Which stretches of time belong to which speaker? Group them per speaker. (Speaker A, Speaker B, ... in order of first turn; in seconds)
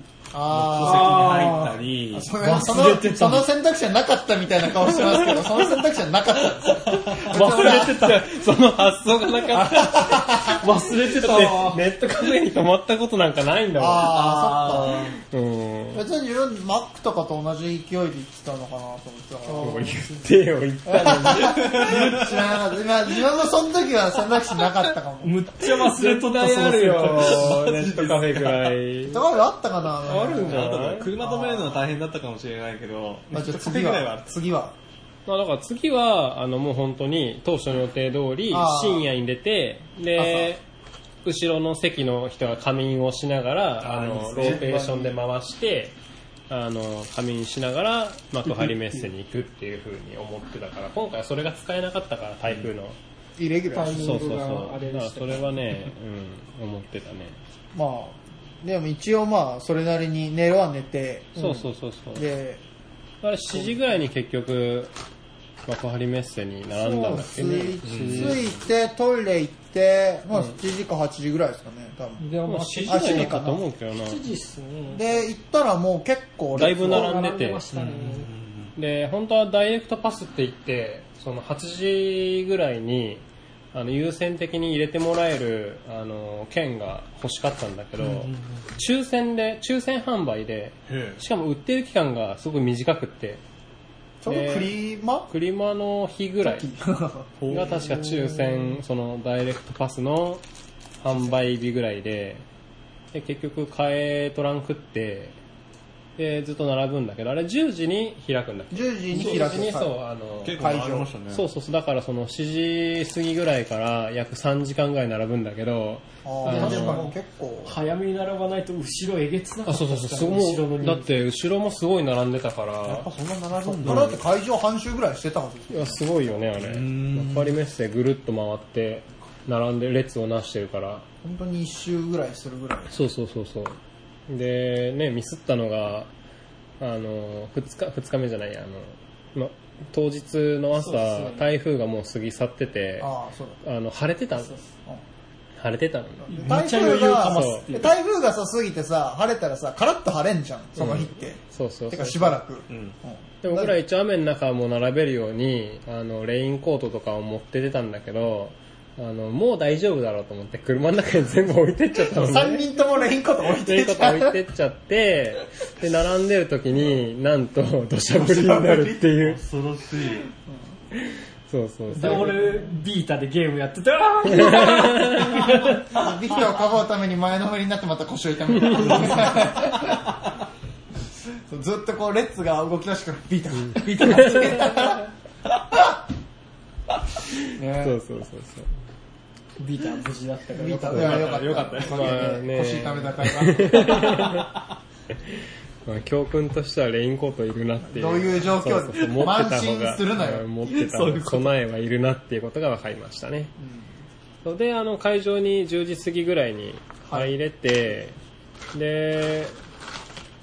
Speaker A: 0.3-8.1, 9.5-10.7, 13.8-15.1, 15.9-19.9, 20.9-25.4, 29.1-30.7, 31.2-31.8, 33.3-34.7, 38.5-39.1, 40.1-40.5, 44.3-45.1, 53.4-54.5, 57.7-62.6, 63.5-63.8, 66.7-73.6, 74.9-77.1, 94.2-95.3, 96.4-97.3, 108.7-109.9, 110.5-111.1, 116.2-117.8, 123.7-126.4, 131.2-132.9, 143.0-143.6, 146.3-153.7, 162.0-164.4, 168.1-169.0, 170.3-170.6, 175.8-180.1, 181.5-185.1, 187.6-188.0, 190.6-194.4, 197.8-200.4, 203.6-203.9
Speaker B: 0.5-2.3, 6.7-7.2, 14.1-15.1, 21.3-22.5, 25.6-28.8, 30.3-34.3, 43.8-44.6, 67.8-68.4, 77.7-78.7, 88.0-88.6, 90.9-91.2, 97.4-98.7, 110.4-111.5, 122.8-124.2, 126.6-127.5, 152.7-152.9, 169.2-170.3, 190.9-192.2, 200.6-201.5
Speaker C: 0.8-1.7, 2.4-3.5, 7.2-8.3, 10.5-11.8, 19.4-20.3, 25.2-27.6, 53.7-55.5, 72.2-73.4, 74.0-75.3, 76.6-78.3, 109.1-109.7, 116.4-121.1, 140.7-141.5, 144.3-144.6, 146.3-147.9, 171.9-175.9, 189.6-191.4
Speaker D: 7.3-14.8, 15.3-16.0, 19.6-21.7, 26.2-29.2, 30.0-31.1, 35.2-40.6, 41.2-45.9, 46.5-53.0, 53.9-57.4, 61.3-62.2, 63.2-64.9, 65.7-68.5, 72.4-74.2, 76.5-77.6, 78.7-93.4, 94.3-96.7, 97.5-100.4, 101.0-102.4, 103.1-105.3, 106.2-110.6, 111.3-117.0, 119.7-123.1, 123.7-124.2, 125.7-131.1, 132.9-136.1, 136.8-144.6, 145.6-146.5, 147.2-147.7, 150.8-152.4, 153.4-162.7, 163.6-169.4, 170.9-172.4, 174.3-175.5, 178.6-179.0, 184.0-184.8, 187.7-188.7, 191.8-194.5, 195.3-203.5, 204.4-208.2, 208.7-209.5